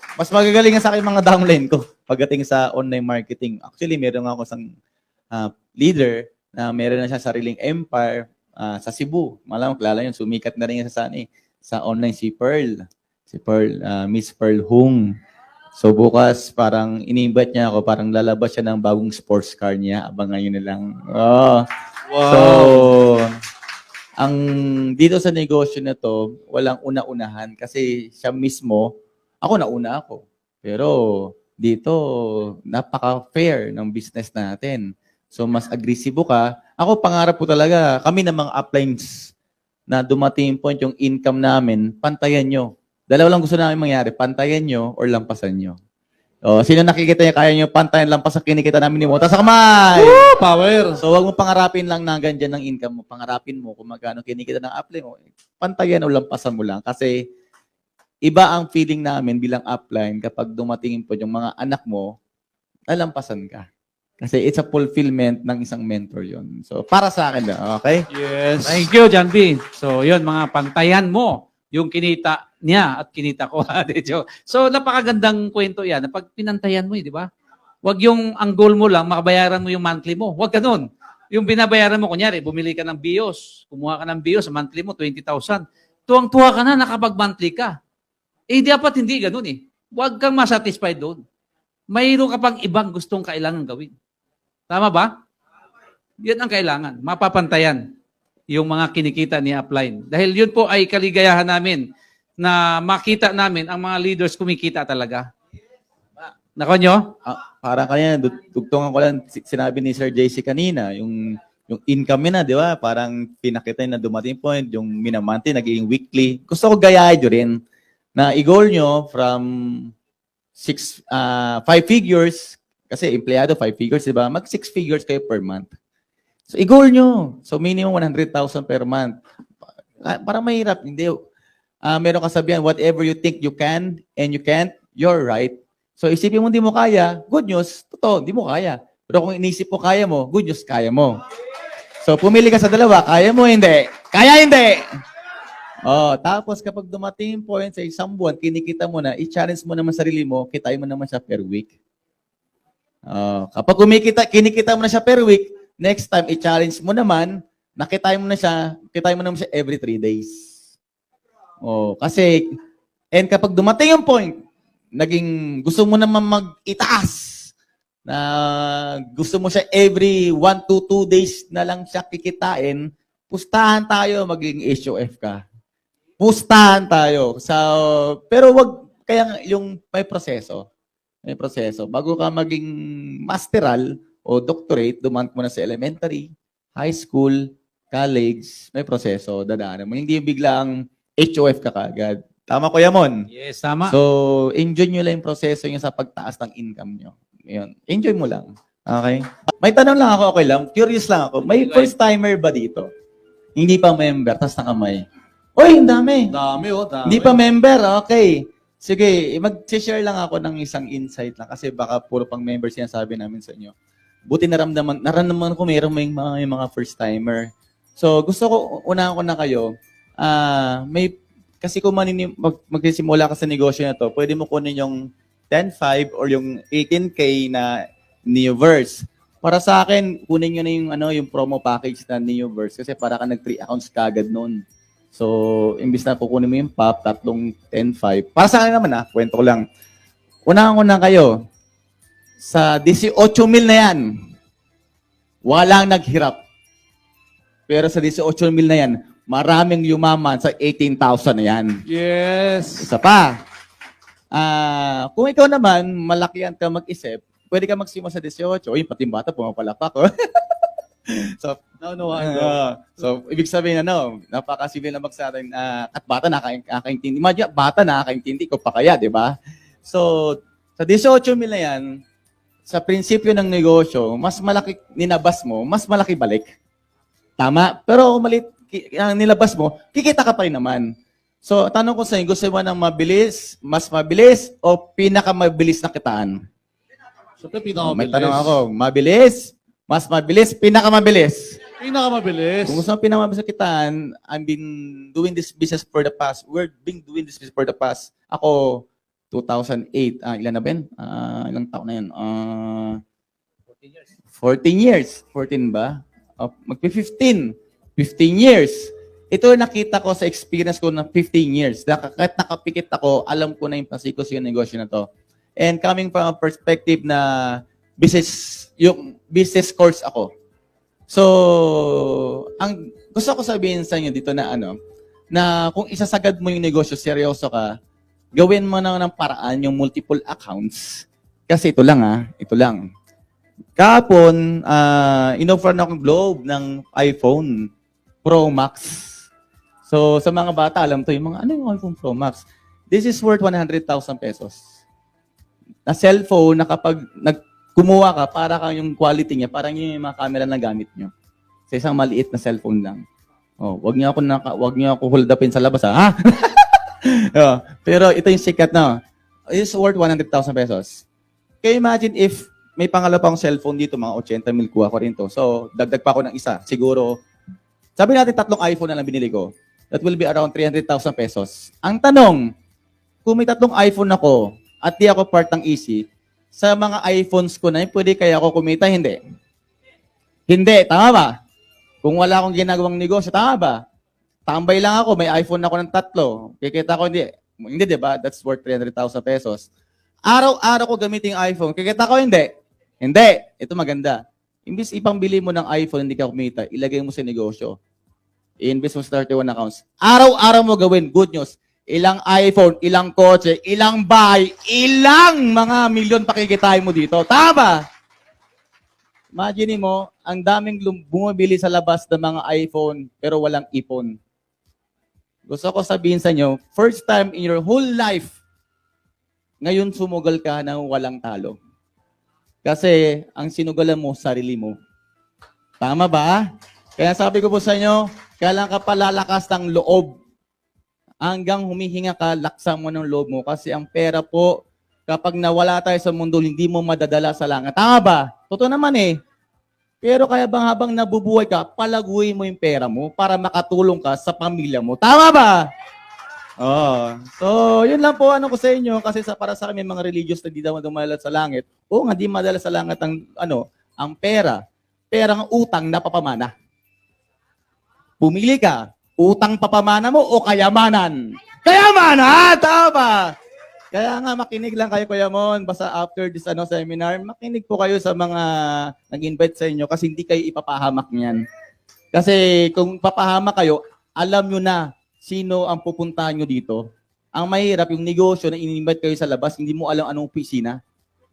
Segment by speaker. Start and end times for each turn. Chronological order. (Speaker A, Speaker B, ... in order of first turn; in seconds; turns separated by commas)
Speaker A: 0.2-4.7, Speaker A: 5.3-12.8, Speaker A: 13.3-15.0, Speaker A: 15.8-21.6, Speaker B: 22.1-22.9, Speaker A: 22.2-23.3, Speaker A: 24.2-28.9, Speaker A: 29.4-32.0, Speaker A: 32.7-39.3, Speaker A: 39.9-45.7, Speaker A: 46.5-50.2, Speaker B: 49.9-51.0, Speaker A: 51.0-57.1, Speaker A: 58.2-62.1, Speaker A: 62.9-63.6, Speaker A: 64.2-68.0, Speaker B: 68.1-68.9, Speaker C: 68.6-77.3, Speaker C: 77.8-87.7, Speaker C: 88.5-91.2, Speaker C: 91.9-93.9, Speaker C: 94.7-95.1, Speaker C: 96.2-97.8, Speaker C: 98.5-101.8, Speaker C: 102.4-105.3, Speaker C: 106.2-107.1, Speaker A: 107.2-117.6, Speaker A: 118.2-119.9, Speaker A: 120.6-125.7, Speaker A: 126.5-129.1, Speaker A: 130.0-131.1, Speaker A: 131.8-141.2, Speaker A: 142.0-144.8, Speaker A: 145.8-151.7, Speaker A: 153.1-160.4, Speaker A: 161.6-162.4, Speaker A: 163.1-164.3, Speaker A: 164.9-167.5, Speaker A: 168.1-175.4, Speaker A: 176.2-180.6, Speaker A: 181.3-182.7, Speaker A: 183.3-193.2, Speaker C: 193.3-193.9, Speaker A: 193.9-202.9, Speaker C: 201.5-201.9, Speaker A: 203.6-205.0, Speaker A: 205.6-206.3, Speaker B: 206.3-207.4, Speaker A: 207.0-213.7, Speaker A: 214.3-219.7, Speaker A: 220.2-221.1, Speaker A: 221.6-225.0, Speaker A: 225.5-227.7, Speaker A: 228.3-234.6, Speaker A: 235.1-239.6, Speaker A: 240.5-241.3, Speaker A: 242.4-244.1, Speaker A: 245.4-246.4, Speaker A: 247.7-251.7, Speaker B: 251.8-252.9, Speaker A: 252.8-253.3, Speaker A: 254.3-260.5, Speaker A: 261.1-261.6, Speaker B: 261.8-262.6, Speaker A: 262.1-269.3, Speaker A: 269.8-271.8, Speaker A: 272.7-276.4, Speaker A: 277.4-280.9, Speaker A: 281.4-286.3, Speaker B: 287.4-288.6, Speaker A: 287.8-291.6, Speaker B: 291.8-292.8, Speaker A: 292.7-298.8, Speaker A: 299.3-303.0, Speaker A: 304.3-315.1, Speaker A: 315.6-320.3, Speaker A: 321.1-324.7, Speaker A: 325.3-327.7, Speaker A: 328.3-332.8, Speaker A: 333.8-337.5, Speaker A: 338.2-339.1, Speaker A: 339.9-344.6, Speaker A: 345.9-351.1, Speaker A: 351.7-353.0, Speaker A: 353.6-358.9, Speaker A: 359.5-361.0, Speaker A: 361.6-367.1, Speaker A: 367.9-372.4, Speaker A: 373.2-376.0, Speaker A: 376.5-379.2, Speaker A: 380.5-381.3, Speaker A: 382.0-383.8, Speaker A: 384.5-389.7, Speaker A: 390.3-392.5, Speaker A: 393.0-397.8, Speaker A: 398.6-407.8, Speaker A: 409.3-414.1, Speaker A: 415.5-418.4, Speaker A: 419.6-421.6, Speaker A: 422.6-424.7, Speaker A: 425.8-426.4, Speaker A: 427.0-430.1, Speaker A: 431.2-434.5, Speaker A: 435.1-439.1, Speaker A: 440.0-445.6, Speaker A: 446.6-454.6, Speaker A: 455.1-456.5, Speaker A: 458.2-463.3, Speaker A: 463.9-471.4, Speaker A: 472.1-476.8, Speaker A: 477.4-480.8